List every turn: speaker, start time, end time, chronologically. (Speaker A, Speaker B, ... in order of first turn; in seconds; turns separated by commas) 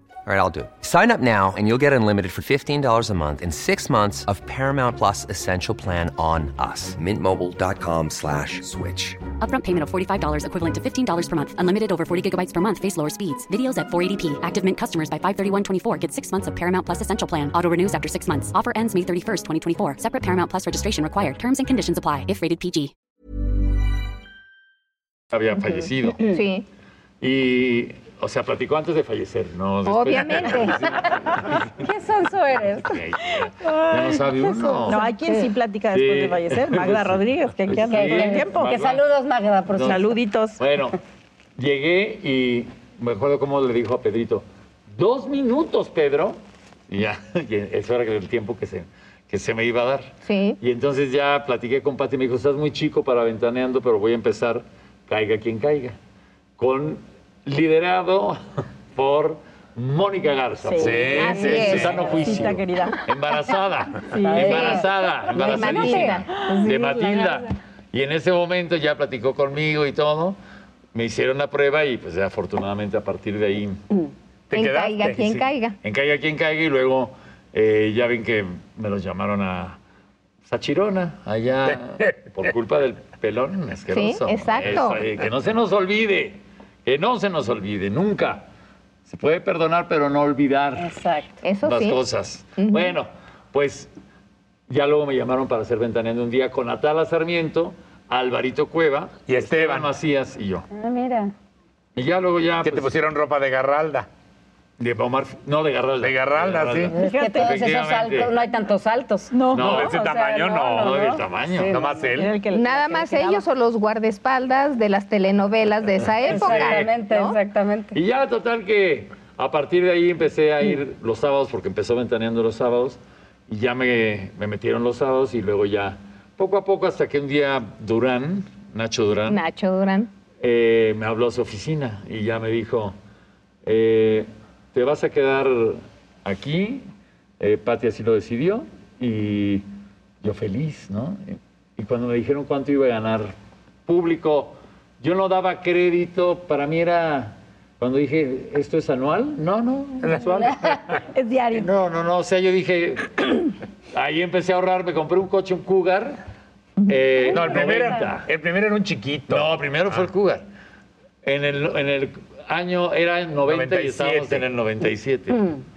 Speaker A: 0.3-9.2, Speaker B: 9.4-22.9, Speaker C: 25.3-26.2, Speaker D: 26.2-26.6, Speaker C: 27.2-31.6, Speaker D: 29.9-30.8, Speaker E: 31.8-33.0, Speaker C: 32.7-35.1, Speaker E: 34.7-35.4, Speaker F: 34.8-38.7, Speaker C: 35.9-39.0, Speaker E: 37.9-40.1, Speaker C: 39.7-41.0, Speaker F: 39.8-40.6, Speaker C: 41.6-56.0, Speaker D: 50.2-50.6, Speaker C: 56.6-58.4, Speaker C: 58.9-70.4, Speaker F: 60.7-63.0, Speaker G: 60.8-61.8, Speaker D: 61.2-62.1, Speaker F: 64.2-64.8, Speaker E: 64.2-67.4, Speaker D: 64.2-64.7, Speaker D: 65.3-66.3, Speaker C: 70.9-73.8, Speaker G: 74.5-75.4, Speaker D: 74.5-75.8, Speaker C: 75.8-79.8, Speaker C: 80.5-88.5, Speaker D: 83.9-85.0, Speaker C: 89.1-90.9, Speaker E: 90.8-91.4, Speaker D: 91.4-92.0, Speaker C: 91.6-93.9, Speaker D: 92.6-93.0, Speaker C: 94.7-100.7, Speaker G: 99.3-99.9, Speaker E: 100.7-101.3, Speaker C: 102.0-102.9, Speaker G: 102.6-104.1, Speaker C: 104.8-108.3, Speaker G: 106.0-107.0, Speaker E: 106.9-112.1, Speaker F: 107.0-107.6, Speaker F: 109.3-110.0, Speaker C: 109.5-109.9, Speaker G: 109.6-111.1, Speaker C: 110.8-111.8, Speaker G: 111.7-112.4, Speaker F: 112.1-113.5, Speaker D: 112.5-117.4, Speaker C: 116.2-116.9, Speaker E: 116.3-118.0, Speaker C: 117.9-129.4, Speaker D: 129.3-130.1, Speaker C: 130.4-132.9, Speaker C: 133.7-136.9, Speaker C: 137.4-139.7, Speaker C: 140.2-143.3, Speaker C: 143.9-150.5, Speaker G: 150.0-150.9, Speaker F: 151.1-151.7, Speaker C: 151.5-156.2, Speaker C: 156.9-158.3, Speaker E: 157.3-157.9, Speaker G: 157.3-160.1, Speaker C: 159.3-160.4, Speaker C: 161.2-165.4, Speaker G: 163.4-164.5, Speaker E: 165.3-165.6